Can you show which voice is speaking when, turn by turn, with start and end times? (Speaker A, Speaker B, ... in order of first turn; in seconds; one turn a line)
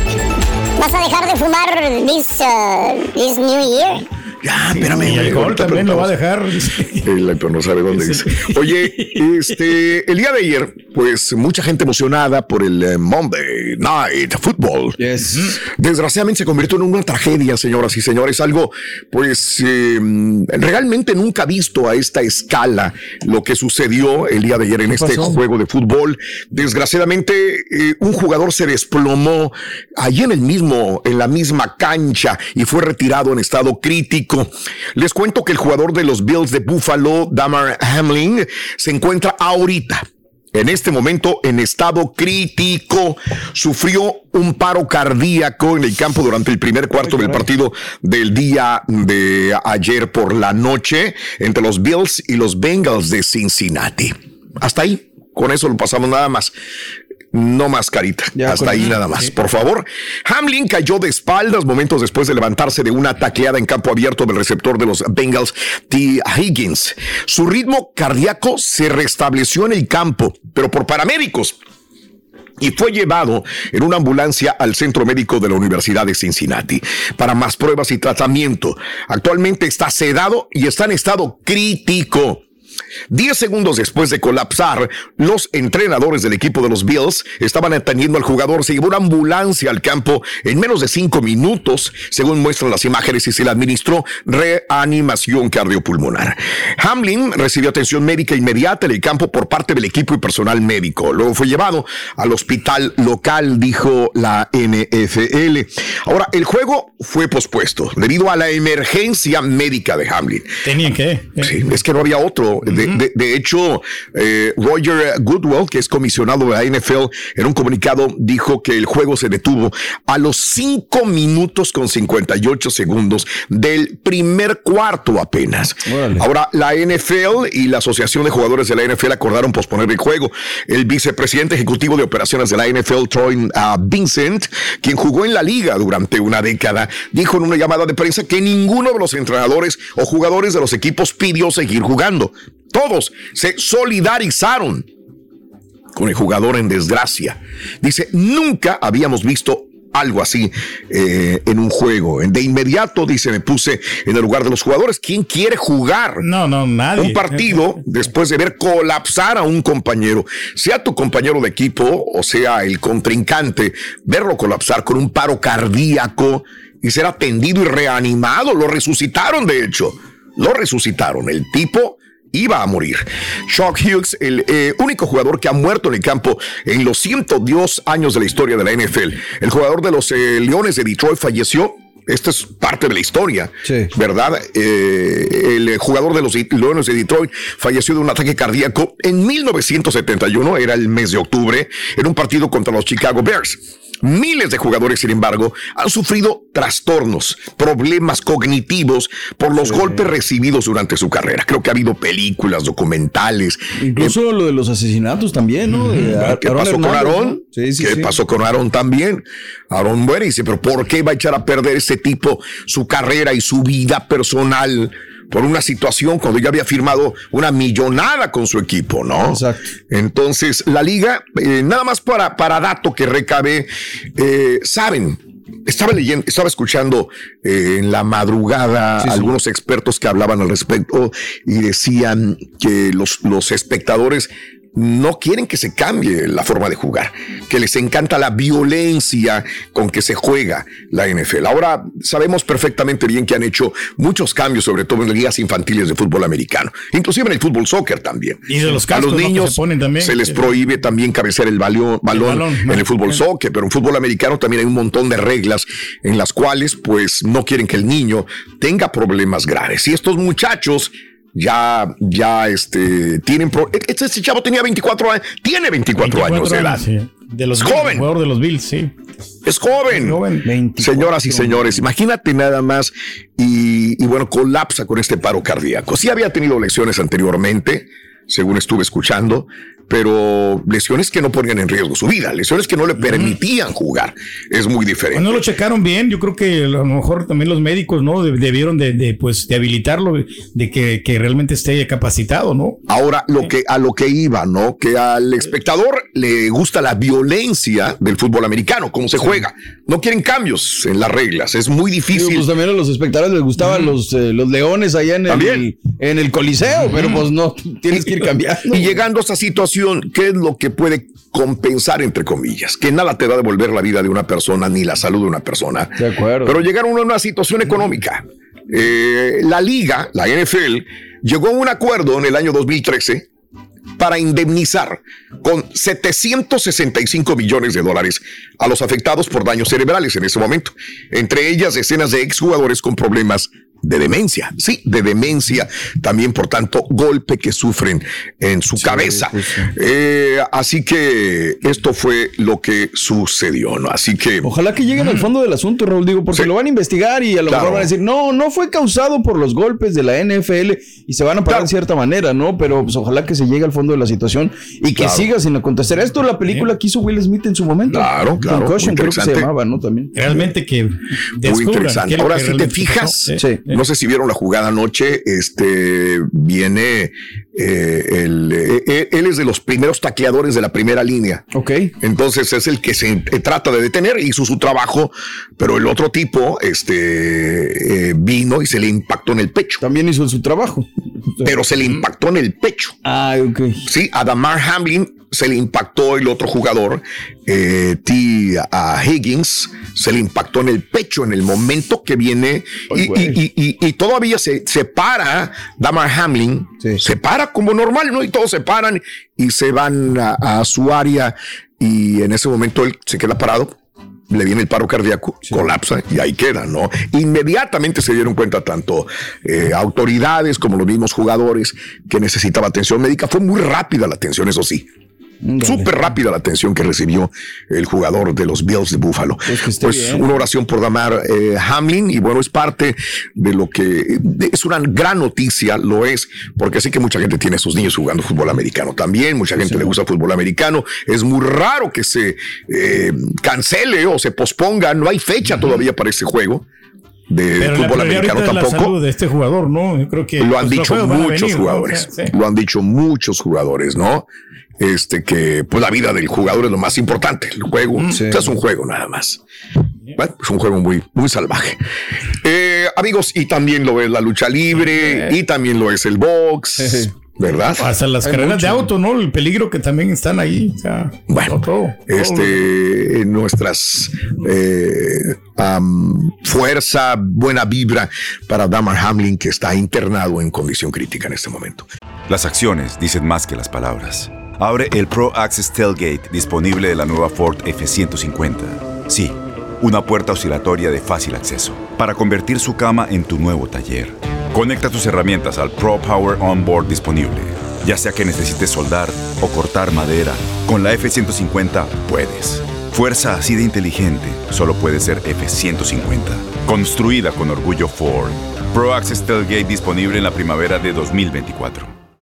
Speaker A: 0.8-4.0
Speaker B: 4.4-6.1
Speaker C: 4.7-7.0
Speaker B: 7.0-15.0
Speaker C: 7.9-8.5
Speaker D: 15.0-15.5
Speaker B: 15.6-56.5
Speaker D: 24.9-25.4
Speaker D: 47.0-47.4
Speaker B: 57.3-71.5
Speaker D: 58.4-59.0
Speaker B: 72.6-82.4
Speaker B: 83.1-110.6
Speaker C: 110.6-111.5
Speaker B: 111.4-144.9
Speaker C: 112.7-112.9
Speaker D: 125.9-126.2
Speaker B: 145.9-156.2
Speaker C: 156.2-157.7
Speaker B: 156.9-204.2
Speaker D: 199.6-200.0
Speaker D: 203.8-208.1
Speaker B: 206.2-266.8
Speaker D: 219.2-219.6
Speaker D: 229.0-229.3
Speaker C: 248.5-250.4
Speaker C: 252.1-252.9
Speaker C: 266.0-268.9
Speaker B: 267.5-268.1
Speaker B: 269.4-270.2
Speaker C: 269.9-270.9
Speaker D: 270.4-271.8
Speaker B: 270.8-285.4
Speaker C: 283.0-283.4
Speaker C: 285.1-292.8
Speaker B: 292.9-302.5
Speaker D: 302.1-309.0
Speaker B: 305.3-305.6
Speaker B: 308.6-323.3
Speaker D: 316.0-316.6
Speaker B: 324.0-344.5
Speaker D: 338.8-339.7
Speaker D: 344.4-360.4
Speaker B: 347.5-347.9
Speaker B: 354.9-355.3
Speaker B: 357.9-359.5
Speaker C: 360.1-363.7
Speaker B: 361.4-371.4
Speaker D: 363.4-363.6
Speaker D: 371.5-371.9
Speaker B: 372.0-379.8
Speaker D: 379.8-380.9
Speaker B: 381.4-382.9
Speaker D: 383.0-383.8
Speaker B: 383.8-403.7
Speaker D: 392.9-393.4
Speaker B: 404.3-414.9
Speaker D: 415.4-415.9
Speaker B: 415.6-436.6
Speaker D: 419.5-420.3
Speaker D: 429.6-429.9
Speaker B: 437.3-438.9
Speaker C: 437.6-442.3
Speaker B: 440.4-444.3
Speaker B: 444.8-449.4
Speaker D: 448.1-448.5
Speaker B: 450.1-451.8
Speaker B: 452.4-457.9
Speaker C: 454.8-455.3
Speaker D: 456.8-457.1
Speaker C: 457.8-462.6
Speaker D: 458.2-458.9
Speaker B: 461.3-471.9
Speaker E: 472.3-501.9